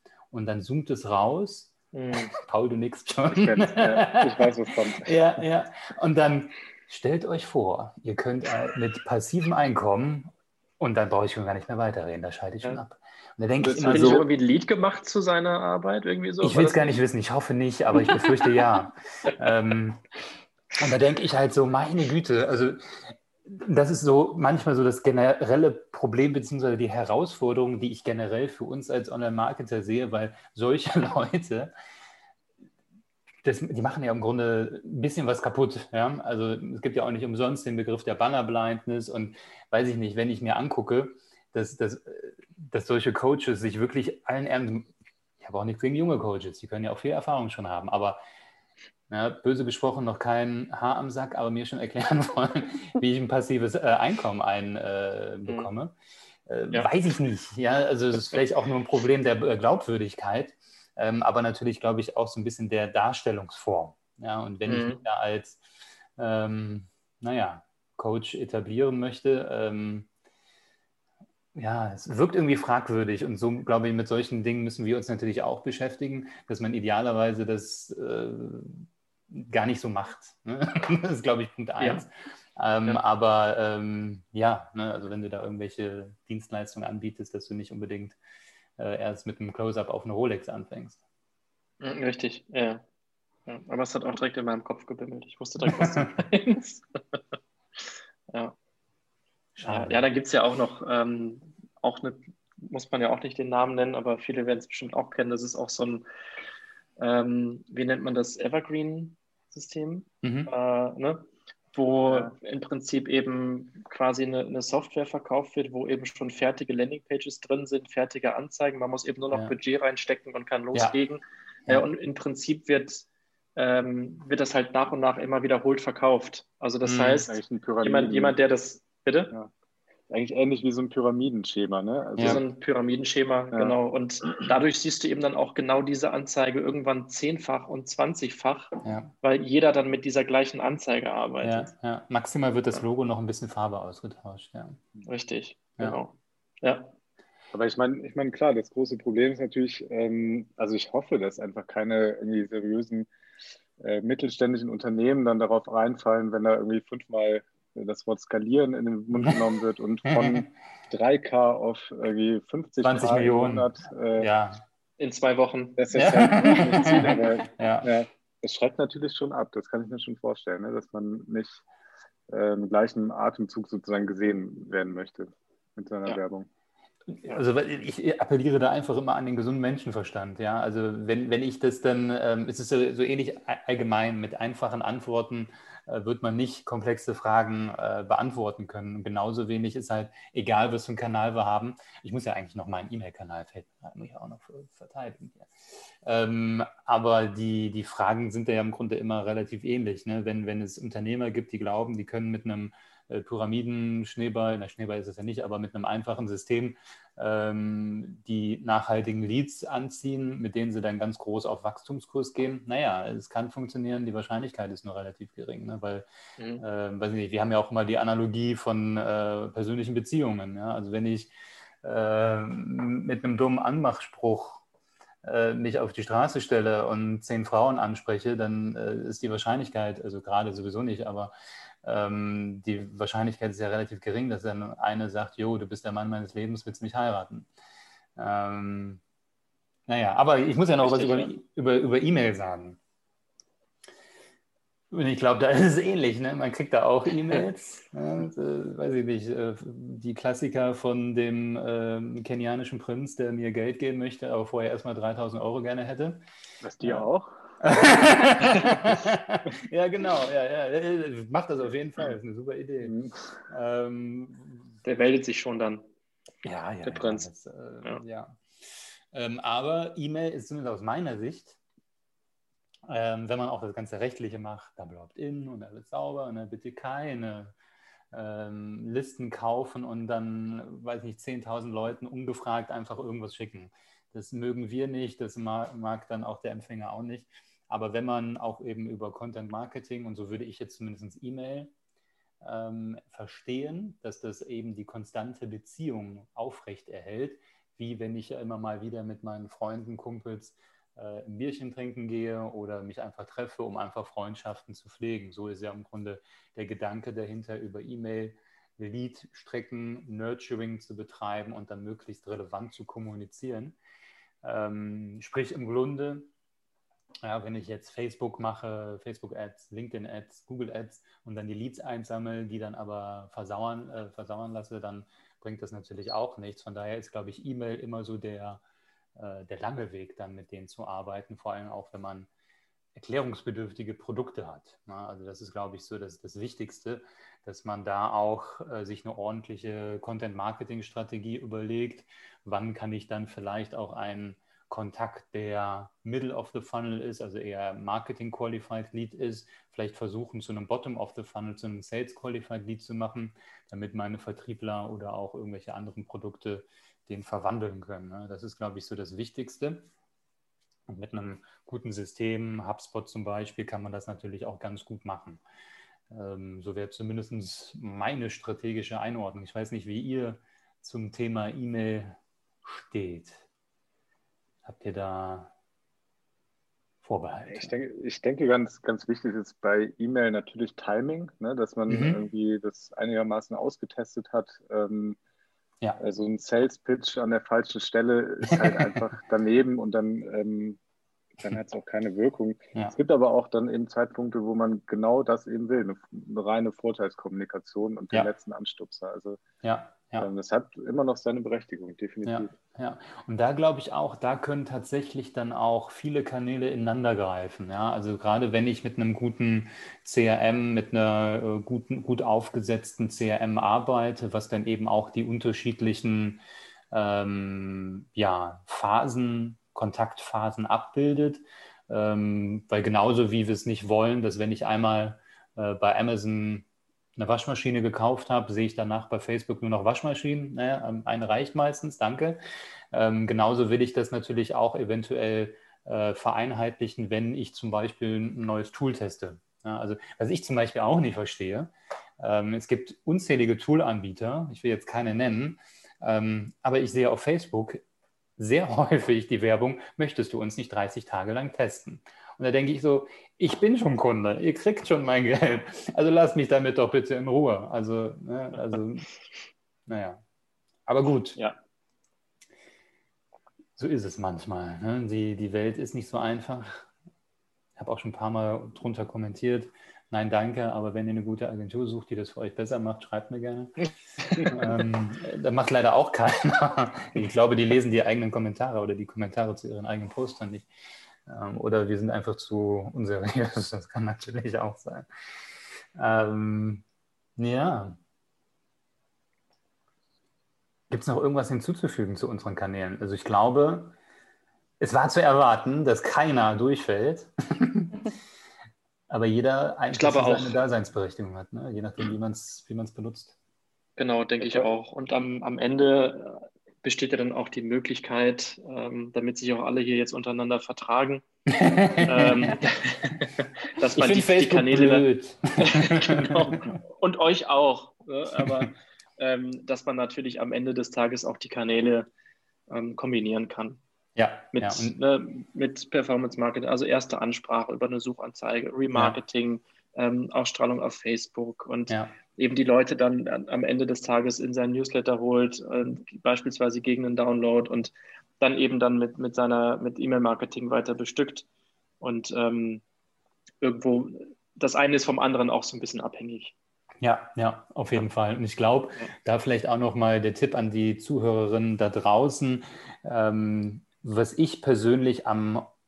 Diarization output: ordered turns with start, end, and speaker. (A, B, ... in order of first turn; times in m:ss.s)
0:00.3-0:01.7 A
0:01.9-0:02.4 B
0:02.3-0:14.3 A
0:03.3-0:05.4 C
0:13.6-0:14.3 C
0:13.7-0:17.0 B
0:16.4-0:20.0 A
0:18.0-0:18.6 B
0:20.8-0:31.7 A
0:33.4-0:48.2 A
0:49.1-0:55.9 A
0:56.5-1:05.6 A
1:04.7-1:05.0 B
1:06.2-1:10.1 A
1:11.6-1:28.2 A
1:21.8-1:22.0 B
1:28.8-1:31.0 A
1:31.8-1:32.8 B
1:33.5-1:37.2 B
1:35.7-1:36.1 A
1:37.8-1:38.6 B
1:39.6-1:40.0 A
1:39.6-1:46.0 B
1:47.0-2:09.3 B
1:50.2-1:50.5 A
1:59.3-1:59.6 A
2:06.8-2:07.3 A
2:07.3-2:08.4 C
2:10.1-2:12.4 C
2:12.2-2:12.4 A
2:12.2-2:21.7 B
2:18.8-2:19.1 A
2:21.4-2:24.8 A
2:25.0-2:26.9 B
2:27.5-2:33.1 C
2:33.8-2:44.3 C
2:40.1-2:40.5 A
2:42.8-2:44.6 A
2:45.0-2:45.8 B
2:45.8-2:51.6 C
2:45.9-2:47.9 A
2:52.3-2:56.5 C
2:57.1-3:15.5 A
3:16.0-3:36.1 A
3:36.4-3:36.6 B
3:36.6-3:41.3 A
3:41.8-3:44.6 A
3:45.2-3:51.3 A
3:51.8-3:57.5 A
3:58.2-3:59.0 A
3:59.9-4:02.8 A
4:00.8-4:01.3 B
4:04.9-4:16.2 A
4:16.6-4:17.3 C
4:16.8-4:17.1 A
4:17.6-4:22.9 A
4:22.8-4:23.2 C
4:23.5-4:24.7 A
4:24.8-4:25.9 B
4:26.4-4:31.6 A
4:26.8-4:27.3 B
4:32.9-4:37.5 A
4:38.1-4:51.7 A
4:52.4-5:13.8 A
5:14.4-5:16.3 A
5:17.2-5:28.6 A
5:29.2-5:32.3 A
5:33.0-5:59.9 A
6:00.9-6:05.4 A
6:06.1-6:13.4 A
6:14.6-6:15.5 A
6:17.0-6:17.7 A
6:17.5-6:25.2 C
6:21.9-6:22.2 A
6:26.0-6:30.8 C
6:28.5-6:29.0 A
6:31.4-6:39.4 C
6:39.6-6:40.3 A
6:40.2-6:42.5 C
6:42.3-6:56.4 A
6:56.9-7:12.4 A
7:12.9-7:27.8 A
7:28.4-7:39.1 A
7:39.9-7:40.2 A
7:40.9-7:41.4 A
7:43.8-7:46.9 A
7:47.8-7:53.9 A
7:54.4-8:00.7 A
8:01.3-8:05.1 A
8:06.0-8:06.8 A
8:07.4-8:08.0 A
8:10.9-8:14.0 A
8:14.8-8:18.1 A
8:19.1-8:23.4 A
8:19.9-8:20.6 B
8:24.0-8:31.2 B
8:31.5-8:32.6 A
8:32.0-8:35.0 B
8:33.9-8:36.8 A
8:35.6-8:42.1 B
8:38.4-8:38.7 A
8:42.7-8:43.8 B
8:44.2-8:45.0 A
8:44.5-9:01.5 B
8:48.9-8:49.2 A
9:02.0-9:02.8 B
9:03.6-9:06.5 B
9:07.0-9:15.7 A